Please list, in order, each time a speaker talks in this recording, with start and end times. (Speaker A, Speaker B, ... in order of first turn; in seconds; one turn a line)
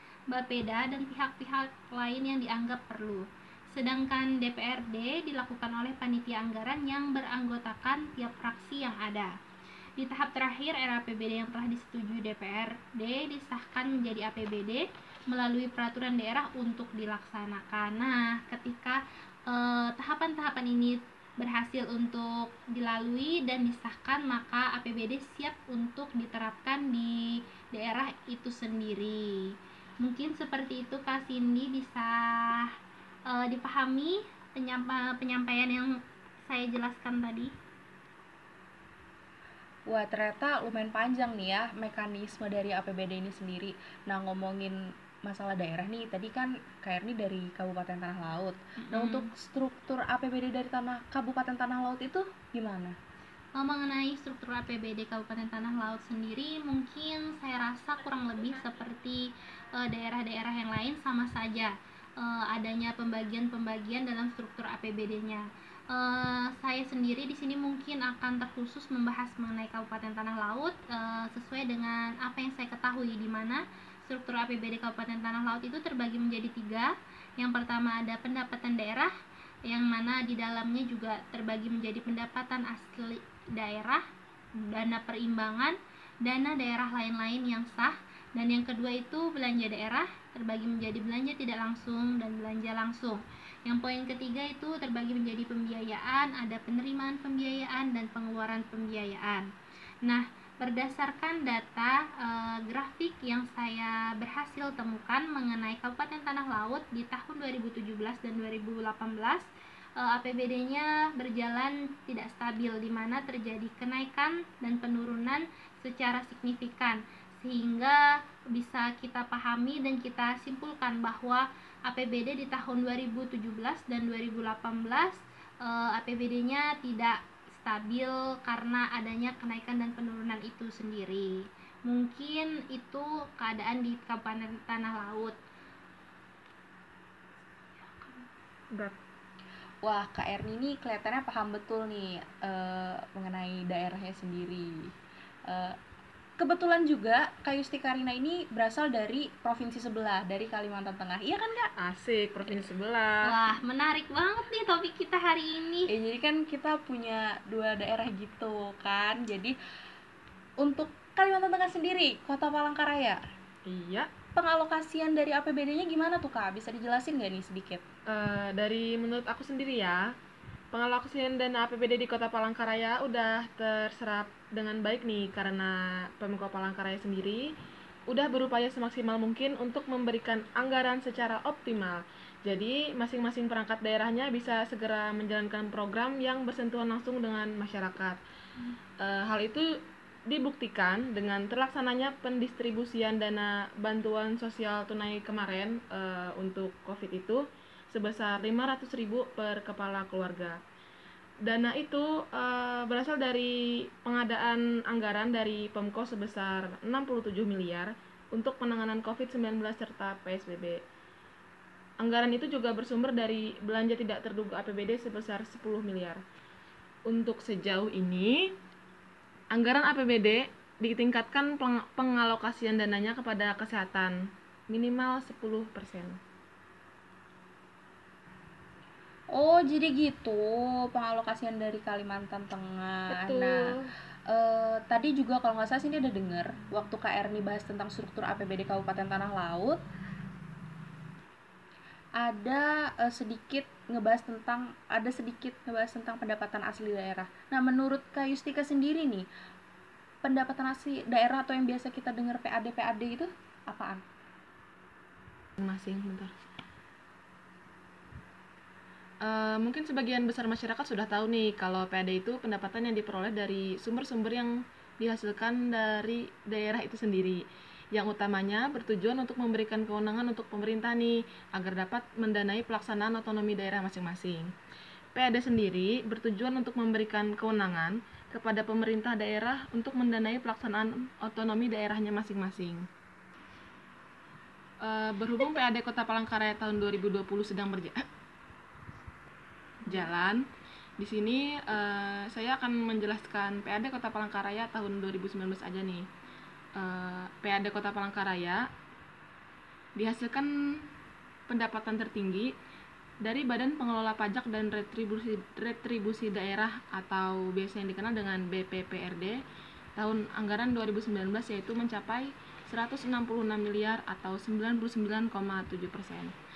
Speaker A: 0.3-9.3
Speaker A: 10.0-19.0
Speaker A: 19.5-29.4
Speaker A: 30.0-32.7
Speaker A: 33.3-35.9
Speaker A: 36.5-37.5
Speaker B: 39.9-53.0
Speaker A: 48.8-49.3
Speaker A: 53.6-59.2
Speaker A: 59.8-79.1
Speaker A: 79.7-84.0
Speaker A: 84.6-99.5
Speaker A: 100.0-109.5
Speaker A: 110.0-118.0
Speaker A: 118.5-131.3
Speaker A: 131.9-135.4
Speaker A: 137.8-138.3
Speaker B: 139.8-144.9
Speaker B: 145.5-145.8
Speaker B: 146.4-151.7
Speaker C: 151.8-153.4
Speaker A: 153.2-155.9
Speaker B: 155.9-159.5
Speaker B: 160.6-163.2
Speaker C: 163.7-164.1
Speaker B: 164.4-167.8
Speaker C: 168.1-170.0
Speaker C: 170.7-177.5
Speaker C: 178.1-188.2
Speaker C: 189.0-189.7
Speaker C: 190.3-200.6
Speaker C: 201.4-210.8
Speaker C: 212.0-216.2
Speaker C: 217.1-218.5
Speaker C: 219.5-226.2
Speaker B: 229.3-233.8
Speaker C: 233.1-233.9
Speaker B: 234.3-239.8
Speaker B: 242.2-249.3
Speaker B: 250.2-254.0
Speaker C: 255.6-256.3
Speaker C: 259.2-267.4
Speaker C: 267.9-274.5
Speaker C: 275.1-282.9
Speaker C: 284.8-288.0
Speaker C: 289.9-290.4
Speaker C: 291.0-296.1
Speaker C: 296.8-298.6
Speaker C: 300.0-300.5
Speaker C: 301.5-302.5
Speaker C: 303.2-309.4
Speaker C: 310.0-316.3